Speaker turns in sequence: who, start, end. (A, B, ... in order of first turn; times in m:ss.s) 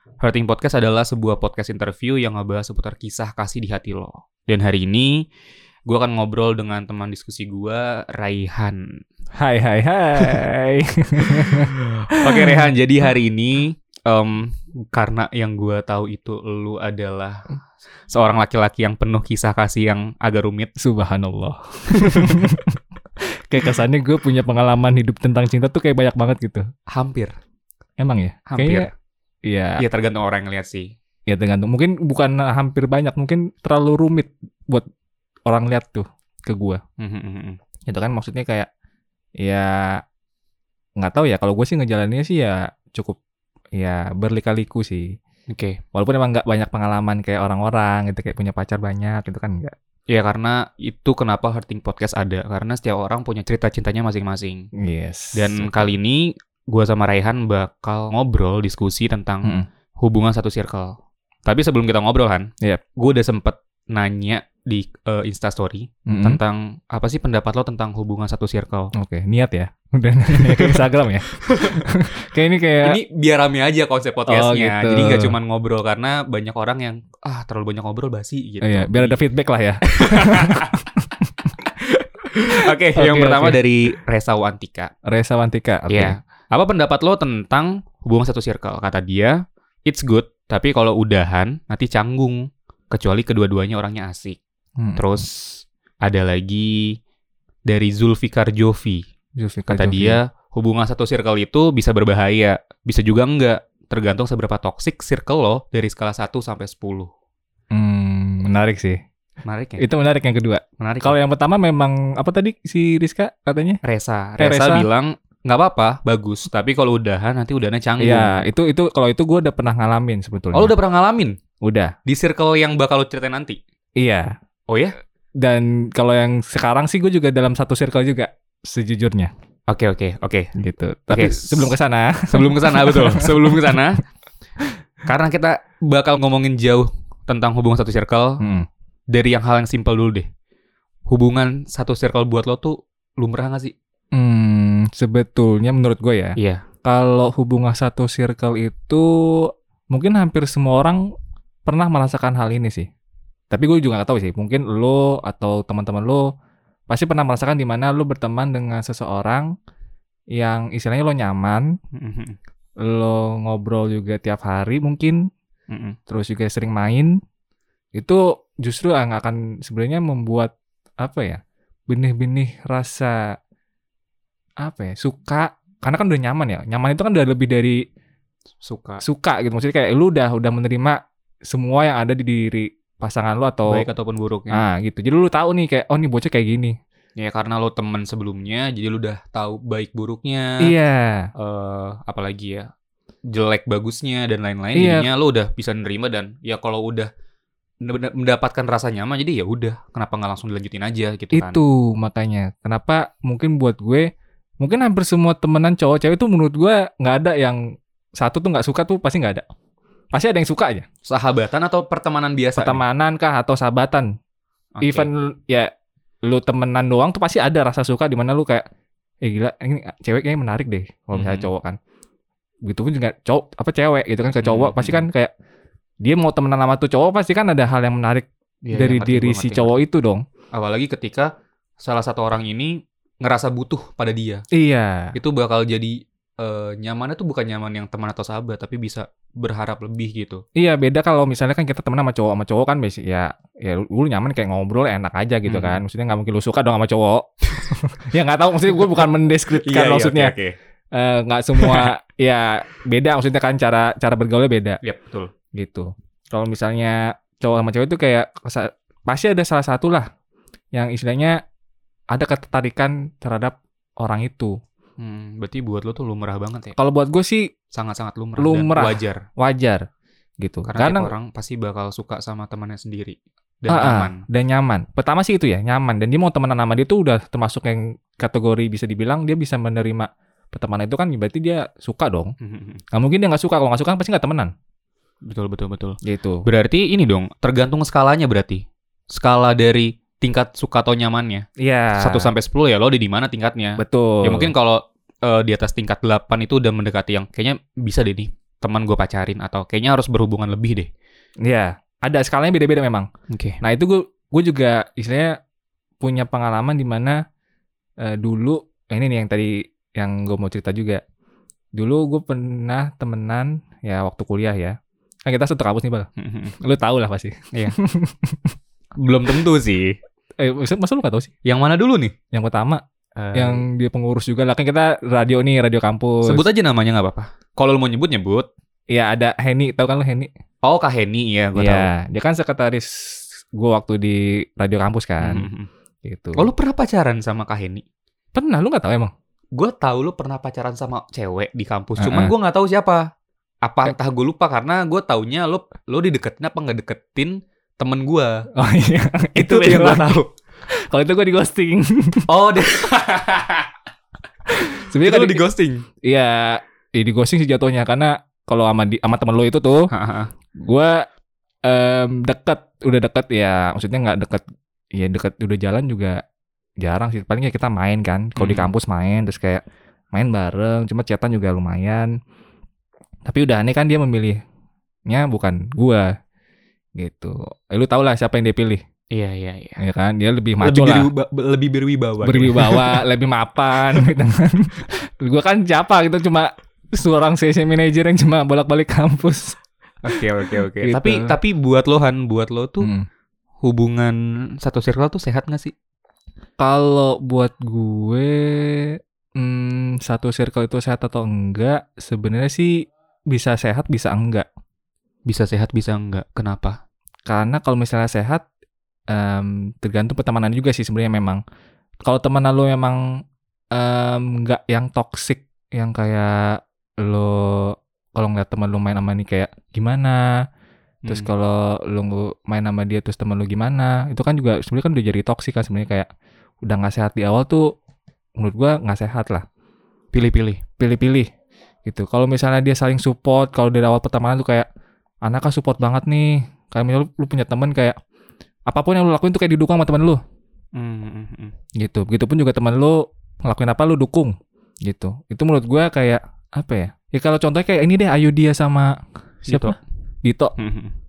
0:00.2-0:05.2 A
0:05.9-0:09.0 A
0:09.4-0:12.7 B
0:11.2-0:17.4 A
0:18.1-0:20.7 A
0:20.8-0:22.8 B
0:21.9-0:22.5 A
0:23.5-0:26.6 B
0:26.9-0:27.3 A
0:28.0-0:28.9 B
0:28.5-0:28.9 A
0:29.4-0:29.8 B
0:29.8-0:30.9 A
0:31.3-0:34.8 B
0:35.5-0:36.8 B
0:37.0-0:37.6 A
0:37.8-0:38.7 B
0:39.4-0:40.0 B
0:41.0-0:43.2 B
0:43.8-0:45.2 B
0:45.5-0:45.8 A
0:45.9-0:49.7 B
0:50.1-0:54.7 A
0:54.7-0:55.9 B
0:55.3-1:08.9 A
1:06.1-1:06.4 B
1:08.9-1:13.0 B
1:10.3-1:11.9 A
1:12.8-1:19.2 A
1:14.3-1:15.3 B
1:18.6-1:21.5 B
1:19.8-1:20.9 A
1:21.6-1:24.9 A
1:22.6-1:23.6 B
1:25.0-1:26.2 B
1:25.9-1:34.4 A
1:34.8-1:35.2 B
1:35.0-1:37.0 A
1:37.7-1:39.0 A
1:39.4-1:40.2 B
1:39.7-1:47.1 A
1:47.7-1:49.0 B
1:49.4-1:49.8 A
1:49.8-1:53.8 B
1:50.8-1:51.2 A
1:53.8-1:58.4 A
1:54.4-1:54.8 B
1:58.0-2:00.7 B
2:00.5-2:01.4 A
2:01.6-2:01.9 B
2:02.0-2:03.6 A
2:04.0-2:04.4 B
2:04.7-2:05.0 A
2:05.4-2:09.3 B
2:09.7-2:10.5 A
2:10.6-2:13.8 B
2:11.1-2:11.7 A
2:12.3-2:14.0 A
2:15.0-2:18.4 A
2:18.4-2:18.7 B
2:19.1-2:20.3 A
2:21.1-2:23.7 A
2:24.1-2:31.0 B
2:26.4-2:26.6 A
2:31.6-2:32.9 B
2:33.5-2:36.3 B
2:36.9-2:39.5 B
2:40.3-2:41.7 B
2:41.9-2:42.4 A
2:42.8-2:45.3 B
2:45.7-2:46.0 A
2:46.1-2:47.1 B
2:47.9-2:53.2 B
2:54.6-2:57.8 B
2:58.6-2:59.0 A
2:59.0-3:03.9 B
3:03.7-3:04.6 A
3:04.5-3:06.8 B
3:07.2-3:10.7 A
3:10.6-3:11.3 B
3:11.4-3:12.7 A
3:13.3-3:17.1 A
3:14.7-3:15.1 B
3:17.8-3:21.6 A
3:21.3-3:27.6 B
3:28.2-3:29.4 B
3:30.1-3:30.8 B
3:31.0-3:32.8 A
3:32.6-3:34.1 B
3:34.8-3:35.1 A
3:34.8-3:35.7 B
3:36.2-3:38.6 B
3:39.2-3:41.8 B
3:41.1-3:41.5 A
3:42.6-3:45.3 B
3:44.4-3:45.0 A
3:46.0-3:50.2 B
3:48.6-3:49.8 A
3:50.5-3:54.4 A
3:54.5-3:55.1 B
3:55.1-4:00.4 A
4:00.6-4:10.3 B
4:05.4-4:05.8 A
4:08.8-4:10.5 A
4:10.9-4:14.8 B
4:11.6-4:11.9 A
4:14.8-4:15.3 A
4:15.5-4:20.1 B
4:20.7-4:21.4 B
4:22.1-4:24.6 B
4:25.0-4:26.7 A
4:26.8-4:27.5 B
4:27.7-4:29.2 A
4:28.4-4:29.8 B
4:30.4-4:31.1 B
4:30.6-4:34.2 A
4:33.7-4:42.3 B
4:42.4-4:42.8 A
4:42.9-4:44.5 B
4:45.2-5:00.9 A
4:46.0-4:46.4 B
4:51.6-4:52.3 B
4:53.8-4:54.5 B
5:01.4-5:03.1 B
5:03.3-5:03.6 A
5:03.6-5:05.4 B
5:06.0-5:07.2 B
5:08.0-5:11.0 B
5:11.7-5:18.5 B
5:16.2-5:16.5 A
5:19.0-5:20.0 A
5:20.4-5:21.3 B
5:21.4-5:22.2 A
5:22.3-5:22.8 B
5:23.2-5:23.6 A
5:23.3-5:26.4 B
5:26.2-5:28.5 A
5:28.9-5:30.3 B
5:30.6-5:31.9 A
5:31.6-5:35.5 B
5:35.2-5:35.7 A
5:36.0-5:36.5 B
5:36.4-5:37.8 A
5:38.3-5:39.1 B
5:39.5-5:43.1 A
5:42.0-5:42.3 B
5:43.6-5:48.4 A
5:48.5-5:52.2 B
5:49.4-5:50.3 A
5:52.3-5:53.7 A
5:54.5-5:55.4 B
5:55.0-5:55.8 A
5:56.0-5:59.9 B
5:59.9-6:00.3 A
6:00.6-6:01.1 B
6:01.6-6:04.4 B
6:04.9-6:06.2 B
6:06.8-6:12.1 B
6:08.4-6:08.7 A
6:13.3-6:14.4 B
6:15.1-6:16.1 B
6:17.0-6:18.8 B
6:19.1-6:19.8 A
6:19.8-6:21.1 B
6:20.6-6:23.0 A
6:22.2-6:29.6 B
6:30.0-6:32.9 A
6:30.8-6:31.3 B
6:32.8-6:33.1 B
6:33.6-6:35.7 A
6:36.6-6:44.5 B
6:45.3-6:46.8 A
6:47.3-6:48.4 B
6:49.1-6:51.4 B
6:52.0-6:53.0 B
6:53.7-7:00.4 B
7:01.1-7:06.1 B
7:06.6-7:07.7 B
7:08.4-7:09.4 B
7:10.1-7:10.6 A
7:10.8-7:11.3 B
7:11.8-7:14.7 B
7:15.2-7:18.0 B
7:18.7-7:20.2 B
7:20.7-7:21.5 A
7:21.8-7:30.5 B
7:29.5-7:29.8 A
7:30.6-7:30.9 A